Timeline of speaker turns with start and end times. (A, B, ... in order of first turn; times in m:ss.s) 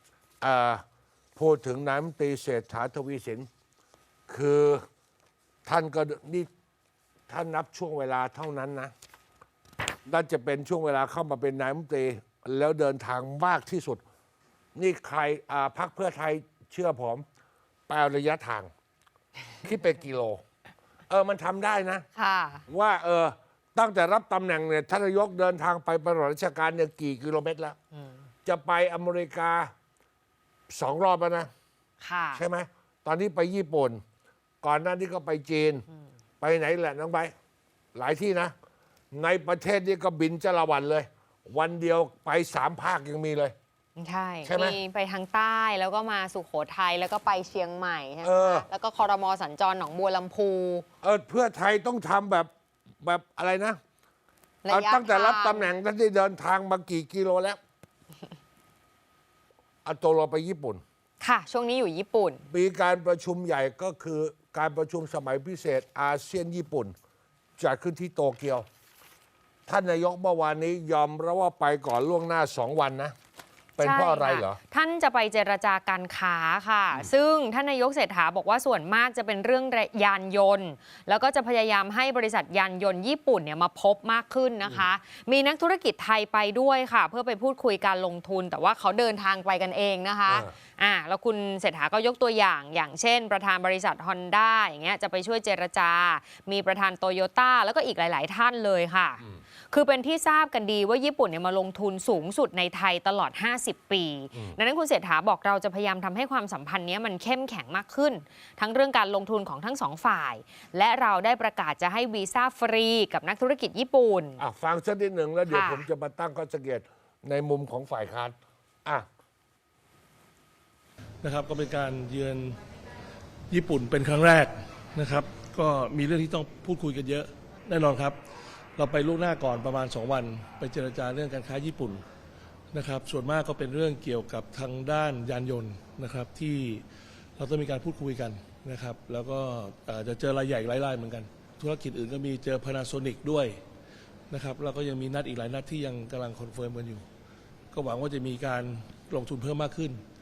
0:00.4-0:00.8 A
0:01.4-0:03.5 A
0:04.3-0:04.8 A
0:05.7-0:06.5 A
0:07.3-0:08.9 A
0:10.1-0:14.0 A
0:14.8-0:17.2 A
0:17.9-0:18.7 A
0:19.6-0:20.4 A
0:21.1-0:22.1 A
0:22.2-0:22.6 B
0:22.7-0:27.8 A
0:28.5-0:29.7 A
0:30.7-0:31.5 A
0:32.0-0:32.4 B
0:32.4-0:34.0 A
0:34.6-0:35.9 A
0:36.4-0:37.3 A
0:38.0-0:38.5 A
0:39.1-0:43.6 A
0:44.0-0:50.9 B
0:44.4-0:44.8 A
0:48.2-0:48.6 A
0:51.0-0:52.5 A
0:53.0-0:53.8 A
0:54.6-0:55.7 B
0:54.7-0:57.6 A
0:59.8-1:00.8 A
1:01.2-1:02.4 B
1:02.5-1:07.0 A
1:07.6-1:08.7 A
1:09.7-1:13.1 A
1:13.8-1:14.6 A
1:13.8-1:54.4 B
1:54.4-1:59.1 A
1:55.5-1:55.9 B
2:01.2-2:02.6 C
2:03.5-2:08.2 C
2:08.8-2:12.0 C
2:12.7-2:16.8 C
2:17.4-2:23.6 C
2:24.3-2:27.0 C
2:27.7-2:30.0 C